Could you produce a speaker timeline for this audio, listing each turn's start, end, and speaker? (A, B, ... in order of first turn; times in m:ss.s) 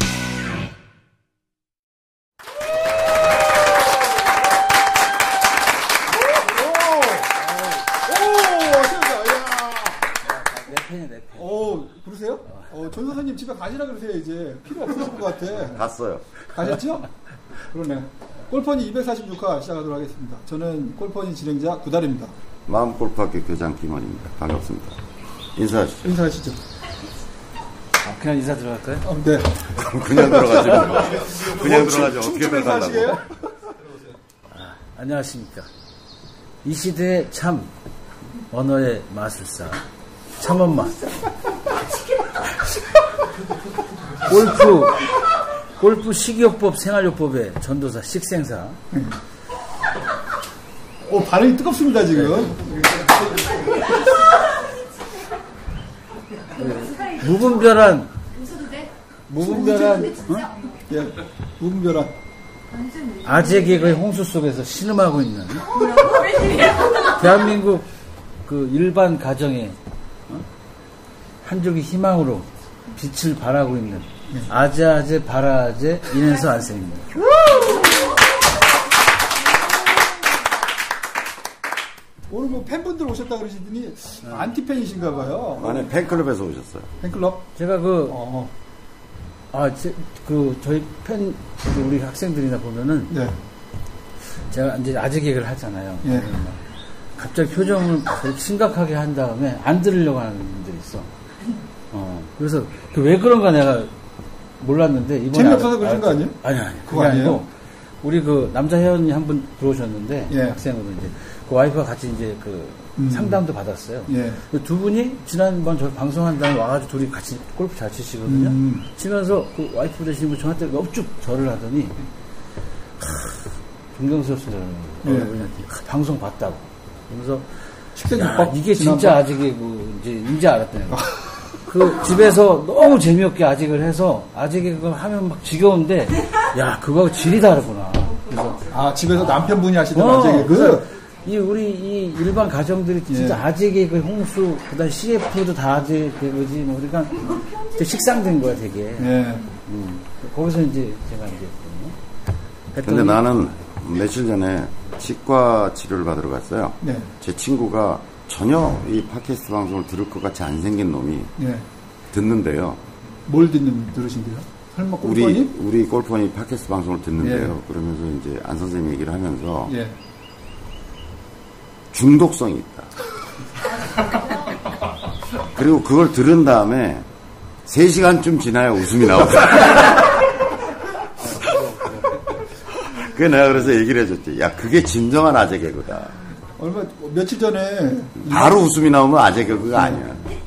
0:06.2-0:07.4 A
0:07.9-0:10.1 A
0:10.2-0:11.8 B
0:11.4-0:15.8 A
0:15.6-0:16.2 C
0:16.5-0:17.1 A
0:17.7-0:22.3 A
0:22.7-0:25.0 C
0:25.6-0:26.0 C
0:26.0-0:26.6 A
0:28.0-0:29.1 B
0:29.0-0:29.5 A
0:29.6-0:33.2 C
0:30.1-0:33.2 A
0:34.5-0:35.7 B
0:36.6-0:37.7 B
0:38.5-0:39.8 B
0:40.4-0:41.1 B
0:44.2-0:45.1 B
0:45.8-0:48.8 B
0:51.0-0:52.9 A
0:52.1-0:52.6 B
0:56.5-0:58.1 B
0:59.3-1:00.5 B
0:59.4-1:00.1 A
1:00.9-1:02.1 A
1:03.2-1:06.0 B
1:06.7-1:07.9 B
1:08.4-1:09.8 B
1:11.4-1:17.2 B
1:17.3-1:17.6 A
1:22.3-1:25.9 A
1:24.2-1:24.5 B
1:25.6-1:26.9 C
1:27.0-1:27.4 A
1:27.6-1:28.2 B
1:28.1-1:28.5 A
1:29.5-1:33.2 B
1:33.1-1:33.4 A
1:34.5-1:36.6 B
1:36.0-1:36.3 A
1:37.2-1:41.1 B
1:41.9-1:43.9 B
1:44.6-1:47.5 B
1:45.3-1:46.4 A
1:46.9-1:47.4 A
1:48.0-2:02.0 B
1:50.3-1:50.6 A
1:53.0-1:53.4 A
1:54.1-1:54.4 A
1:58.2-1:58.9 A
2:03.0-2:07.4 B
2:05.0-2:05.3 A
2:08.0-2:09.2 A
2:08.1-2:11.1 B
2:10.9-2:11.3 A
2:11.6-2:18.6 B
2:18.7-2:20.9 A
2:19.9-2:32.0 B
2:23.1-2:23.4 A
2:29.0-2:29.5 A
2:32.7-2:33.6 B
2:32.8-2:41.3 C
2:36.8-2:37.1 A
2:41.4-2:41.6 A
2:42.1-2:42.8 C
2:43.2-2:45.5 A
2:45.0-2:49.7 C
2:47.2-2:47.5 A
2:49.7-2:49.9 A
2:51.9-2:52.9 C
2:55.5-2:57.0 C
2:57.6-3:00.1 C
3:01.2-3:02.4 B
3:02.8-3:06.2 C
3:06.6-3:08.6 A
3:08.2-3:10.2 C
3:09.7-3:10.1 A